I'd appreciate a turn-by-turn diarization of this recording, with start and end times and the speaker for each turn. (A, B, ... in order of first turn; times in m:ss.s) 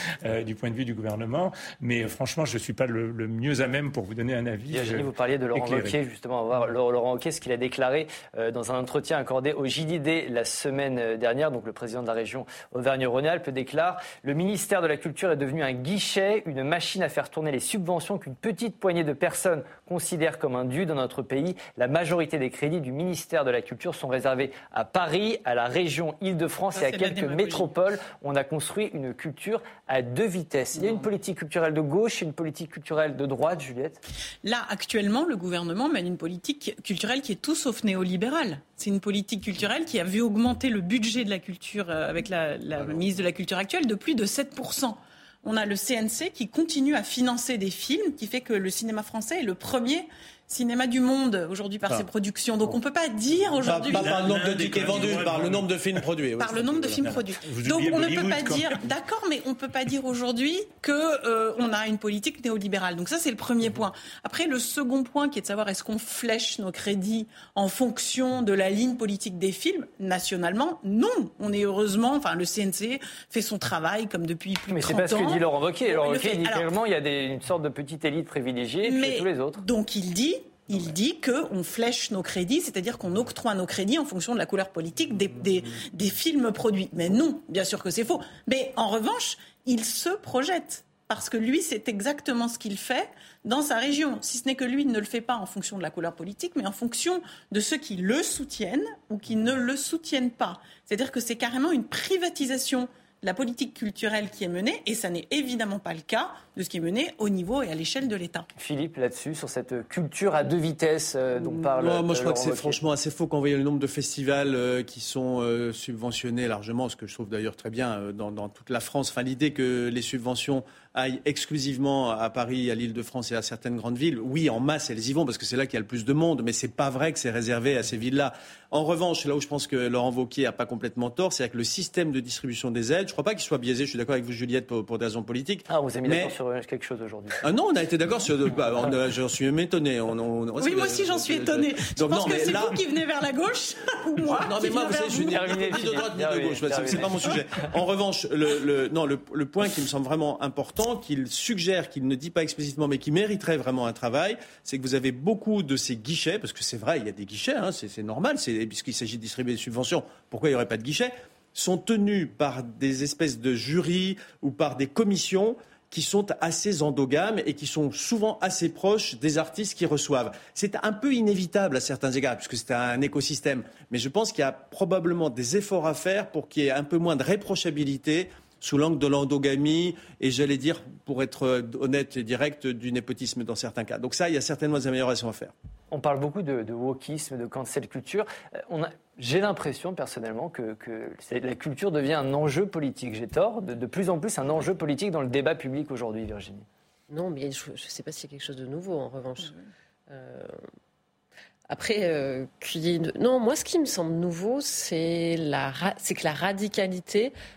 0:00.2-0:05.9 A
0:04.7-0:34.0 B
0:26.7-0:27.7 C
0:34.4-0:55.2 C
0:53.6-0:57.0 D
0:53.6-0:55.7 A
0:56.4-1:16.7 C
0:56.5-0:58.9 A
1:14.7-1:19.6 B
1:18.8-1:48.5 C
1:48.6-1:52.8 B
1:51.7-2:16.3 D
2:15.7-2:17.4 B
2:17.4-2:22.8 D
2:20.6-2:26.1 C
2:24.2-3:05.5 D
2:25.3-2:27.4 B
3:05.9-3:16.6 B
3:17.1-3:19.5 E
3:20.1-3:20.5 E
3:21.7-3:27.3 E